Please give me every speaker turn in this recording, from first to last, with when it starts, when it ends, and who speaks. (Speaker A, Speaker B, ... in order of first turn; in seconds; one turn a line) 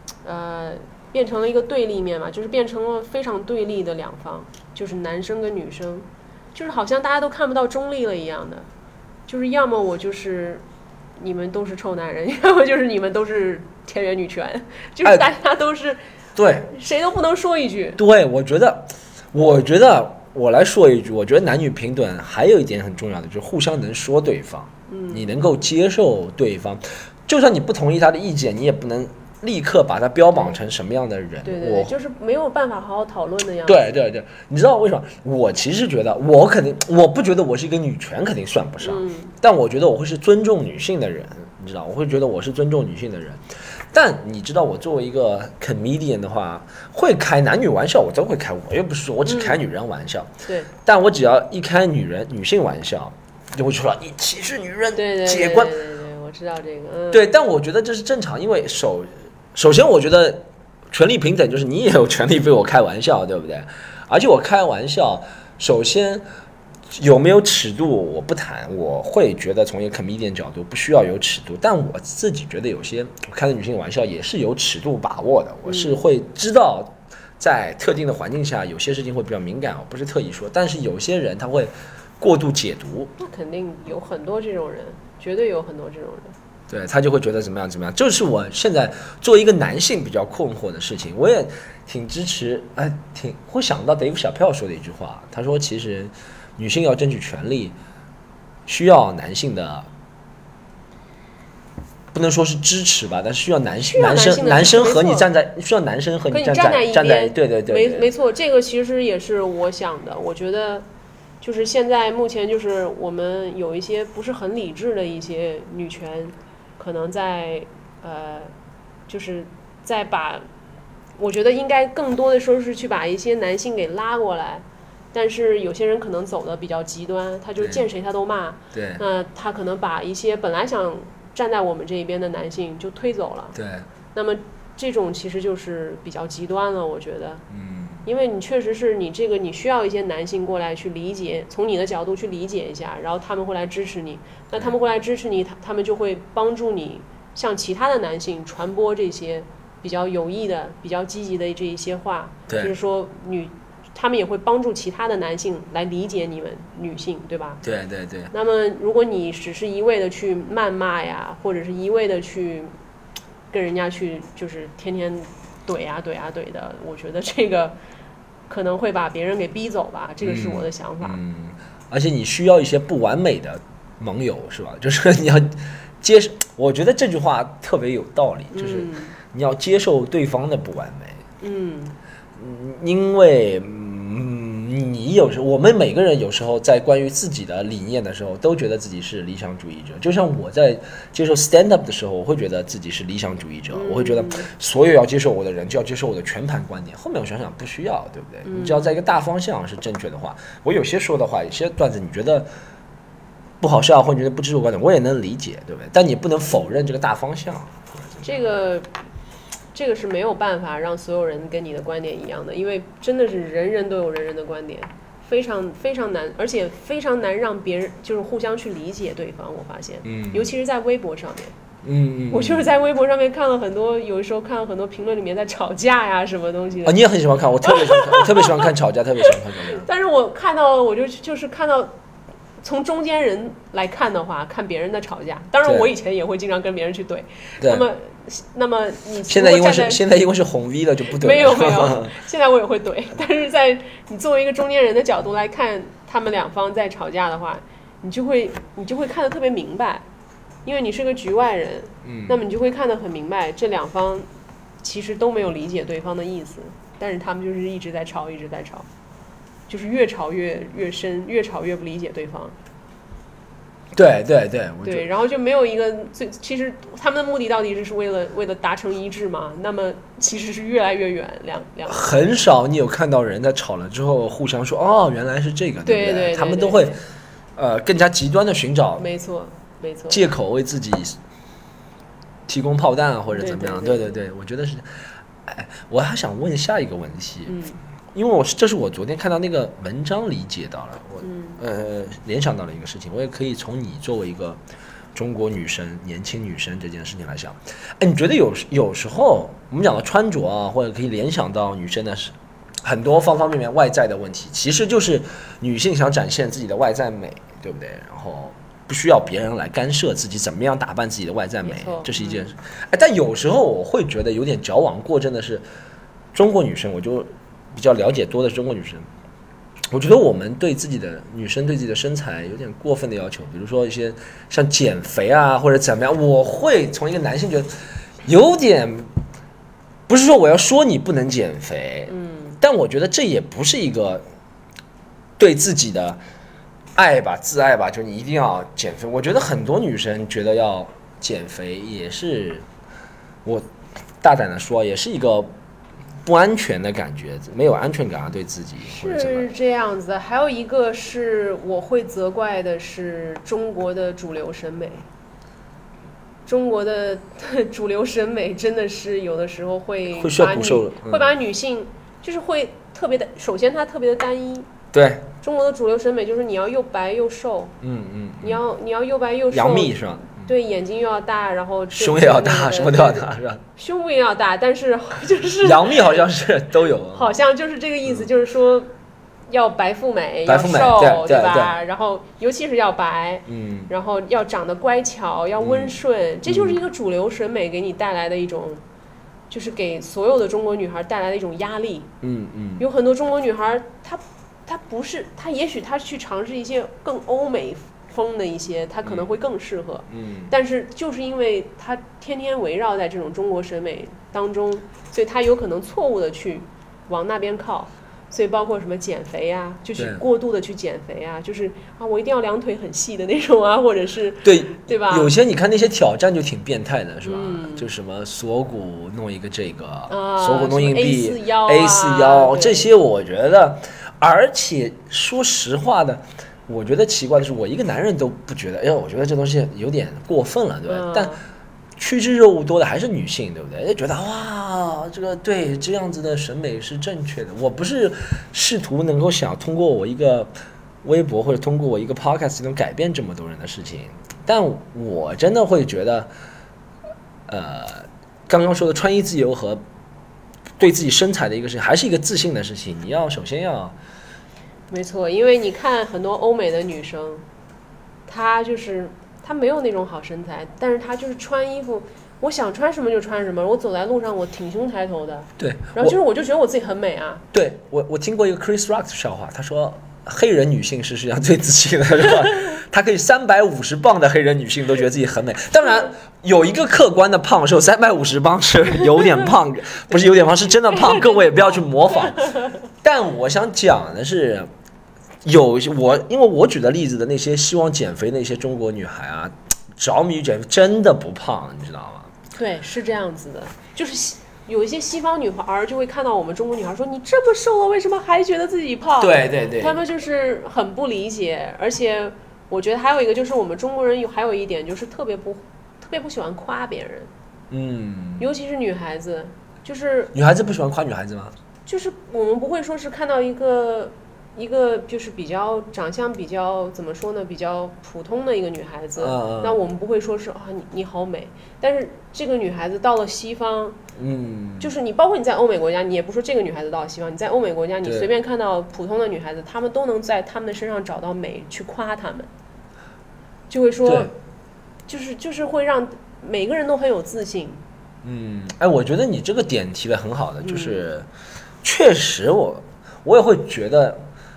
Speaker A: 0.2-8.7
Speaker A: 9.3-10.6
Speaker A: 11.2-16.0
Speaker B: 16.4-16.7
Speaker A: 16.6-18.0
Speaker B: 18.0-31.9
Speaker A: 24.9-25.3
Speaker A: 31.4-33.9
Speaker B: 33.6-43.4
Speaker A: 38.8-39.3
Speaker B: 43.9-50.3
Speaker A: 49.2-49.6
Speaker B: 50.8-55.7
Speaker A: 54.9-57.2
Speaker B: 57.1-66.2
Speaker B: 66.9-83.1
Speaker A: 75.6-76.0
Speaker A: 83.2-86.3
Speaker B: 86.7-97.8
Speaker B: 98.7-99.9
Speaker B: 102.1-108.1
Speaker A: 103.9-105.3
Speaker A: 106.3-110.8
Speaker A: 111.4-118.5
Speaker A: 119.1-120.4
Speaker A: 121.2-133.6
Speaker B: 127.6-127.8
Speaker B: 128.7-129.0
Speaker B: 133.5-133.9
Speaker A: 134.1-137.4
Speaker B: 137.5-138.1
Speaker A: 138.1-157.6
Speaker B: 152.5-152.7
Speaker B: 157.6-158.3
Speaker A: 158.3-162.7
Speaker A: 163.5-167.8
Speaker A: 168.5-171.2
Speaker B: 170.2-181.2
Speaker A: 178.5-179.2
Speaker A: 181.4-182.0
Speaker B: 182.4-202.5
Speaker A: 193.7-194.5
Speaker A: 198.4-198.9
Speaker B: 203.6-208.5
Speaker A: 208.2-208.9
Speaker A: 209.7-221.6
Speaker B: 220.0-220.5
Speaker B: 221.8-222.7
Speaker A: 222.3-227.0
Speaker B: 226.8-229.8
Speaker A: 227.6-228.7
Speaker A: 229.7-231.9
Speaker A: 232.6-240.0
Speaker B: 237.6-237.8
Speaker B: 239.3-242.2
Speaker A: 241.1-250.0
Speaker A: 250.6-254.2
Speaker B: 252.0-252.4
Speaker A: 254.8-258.9
Speaker A: 259.7-262.6
Speaker B: 263.9-265.1
Speaker A: 264.8-272.3
Speaker B: 271.9-277.0
Speaker A: 275.8-277.0
Speaker B: 277.6-279.1
Speaker A: 279.0-280.2
Speaker B: 280.1-281.2
Speaker B: 282.5-284.9
Speaker A: 283.3-284.1
Speaker B: 285.4-287.6
Speaker A: 287.5-287.8
Speaker B: 288.1-294.6
Speaker A: 291.2-291.6
Speaker B: 295.1-315.6
Speaker A: 311.6-312.5
Speaker B: 316.3-319.1
Speaker B: 319.9-327.7
Speaker B: 328.2-329.1
Speaker B: 330.1-334.2
Speaker A: 332.1-332.6
Speaker B: 335.4-336.2
Speaker B: 336.9-342.6
Speaker B: 344.2-345.5
Speaker B: 346.2-349.5
Speaker A: 348.9-355.1
Speaker A: 356.4-364.7
Speaker B: 360.1-361.3
Speaker B: 364.9-365.3
Speaker A: 365.4-367.7
Speaker B: 367.8-368.6
Speaker A: 368.4-376.2
Speaker B: 369.5-370.5
Speaker B: 371.9-373.6
Speaker B: 375.6-377.3
Speaker A: 377.1-378.9
Speaker A: 379.5-388.8
Speaker B: 380.4-381.8
Speaker B: 383.5-383.9
Speaker B: 385.6-386.8
Speaker A: 389.5-392.1
Speaker B: 392.2-392.8
Speaker A: 392.8-415.3
Speaker B: 400.1-400.5
Speaker B: 409.9-410.2
Speaker B: 414.4-431.3
Speaker A: 417.2-417.9
Speaker A: 420.1-422.9
Speaker A: 430.9-431.4
Speaker B: 432.0-440.5
Speaker B: 441.0-446.3
Speaker B: 447.5-449.8
Speaker B: 450.8-453.9
Speaker A: 454.9-457.4
Speaker A: 458.3-467.4
Speaker B: 465.6-466.1
Speaker B: 467.5-484.7
Speaker A: 480.1-482.8
Speaker B: 485.4-492.3
Speaker A: 492.5-507.3
Speaker B: 499.2-500.0
Speaker B: 507.7-508.5
Speaker A: 508.4-510.3
Speaker B: 510.3-511.5
Speaker A: 511.9-524.0
Speaker B: 519.2-519.8
Speaker B: 524.2-524.9
Speaker A: 524.8-532.5
Speaker B: 528.0-528.3
Speaker A: 533.7-534.3
Speaker B: 534.0-534.3
Speaker A: 535.1-537.8
Speaker B: 538.2-541.3
Speaker A: 540.6-541.0
Speaker B: 541.8-544.2